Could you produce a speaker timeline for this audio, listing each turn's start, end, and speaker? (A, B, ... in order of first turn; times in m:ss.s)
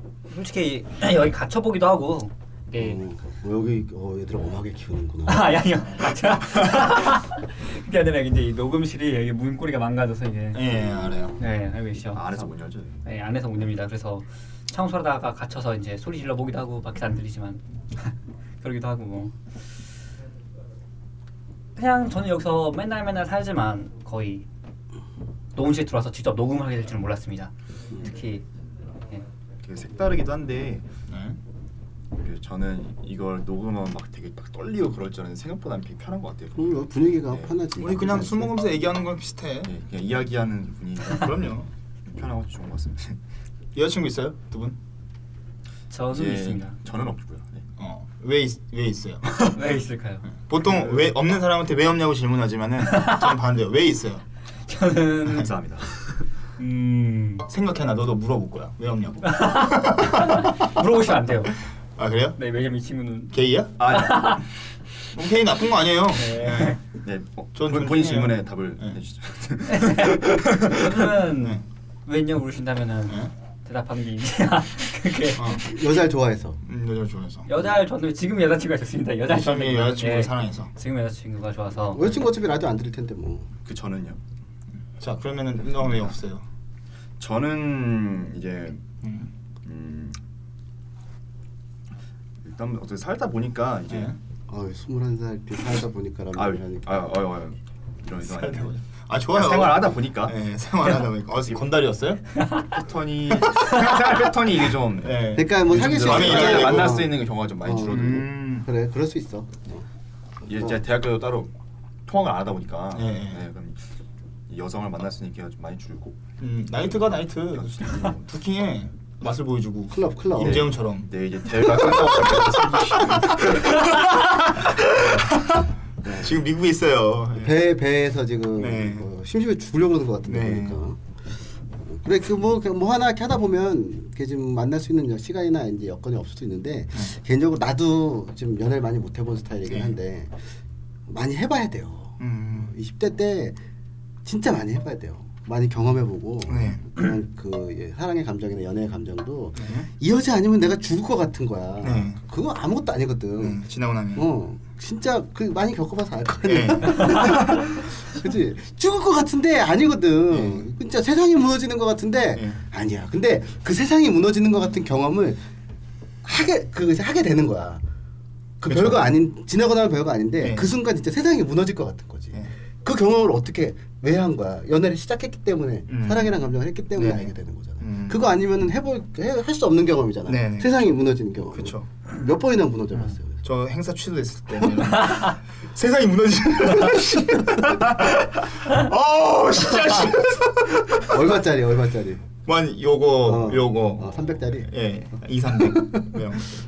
0:00.3-0:03.0 A
0:02.8-0:05.6 B
0:05.3-0:10.8 A
0:10.5-0:11.4 C
0:11.4-0:12.3 A
0:12.1-0:13.0 D
0:13.0-0:19.4 A
0:21.8-0:24.5 A
0:25.6-0:28.4 A
0:29.6-0:30.9 D
0:31.1-0:31.4 C
0:32.2-0:37.6 D
0:36.6-0:38.6 B
0:37.8-0:39.7 C
0:39.6-0:41.4 D
0:41.1-0:41.7 C
0:42.1-0:43.2 D
0:43.8-0:44.8 C
0:45.9-0:46.8 A
0:46.1-0:47.7 D
0:47.8-0:49.6 C
0:49.4-0:50.3 A
0:50.3-0:54.2 C
0:52.9-0:53.2 A
0:54.7-0:55.5 A
0:55.2-0:55.9 D
0:56.6-0:57.5 A
0:57.5-1:00.7 C
0:59.2-1:01.6 A
1:02.0-1:02.4 C
1:02.4-1:03.4 A
1:03.3-1:03.8 C
1:03.8-1:04.4 D
1:03.9-1:04.4 A
1:05.1-1:06.8 C
1:06.2-1:06.8 A
1:07.0-1:10.4 D
1:07.6-1:09.0 C
1:09.7-1:15.8 A
1:11.4-1:11.6 C
1:15.4-1:15.7 C
1:15.6-1:16.6 B
1:16.6-1:17.5 C
1:17.5-1:22.0 A
1:19.3-1:20.7 C
1:21.9-1:23.5 B
1:23.6-1:24.2 D
1:25.0-1:26.4 C
1:27.2-1:28.8 D
1:29.0-1:29.3 C
1:29.6-1:30.2 D
1:32.4-1:34.2 D
1:33.9-1:34.2 C
1:34.5-1:37.1 B
1:36.4-1:38.8 D
1:38.2-1:42.2 C
1:39.3-1:40.4 D
1:42.7-1:48.3 D
1:43.4-1:44.2 C
1:45.0-1:47.0 C
1:45.3-1:49.8 B
1:47.8-1:48.7 C
1:50.4-1:51.5 D
1:52.1-1:53.8 D
1:52.9-1:53.5 C
1:54.5-1:56.2 D
1:56.4-2:01.1 C
1:57.5-1:58.2 D
1:59.9-2:00.7 B
2:00.4-2:03.8 D
2:01.7-2:07.6 C
2:06.0-2:06.4 B
2:07.4-2:11.0 B
2:08.6-2:09.1 C
2:10.3-2:10.8 C
2:11.8-2:20.4 B
2:19.7-2:20.0 C
2:21.1-2:23.6 B
2:22.2-2:22.7 C
2:24.2-2:33.6 B
2:26.5-2:27.0 C
2:29.6-2:29.9 C
2:31.8-2:32.2 C
2:33.4-2:34.3 C
2:34.2-2:45.4 B
2:36.5-2:37.6 C
2:40.3-2:40.7 C
2:42.4-2:42.6 C
2:46.2-2:47.8 B
2:48.6-3:03.4 B
2:48.7-2:49.1 C
2:50.4-2:50.7 C
2:55.9-2:56.4 C
2:57.0-2:58.3 C
3:00.3-3:00.8 C
3:01.5-3:01.9 C
3:03.4-3:11.1 C
3:11.0-3:12.2 B
3:12.5-3:16.6 C
3:13.2-3:14.7 B
3:15.5-3:16.2 B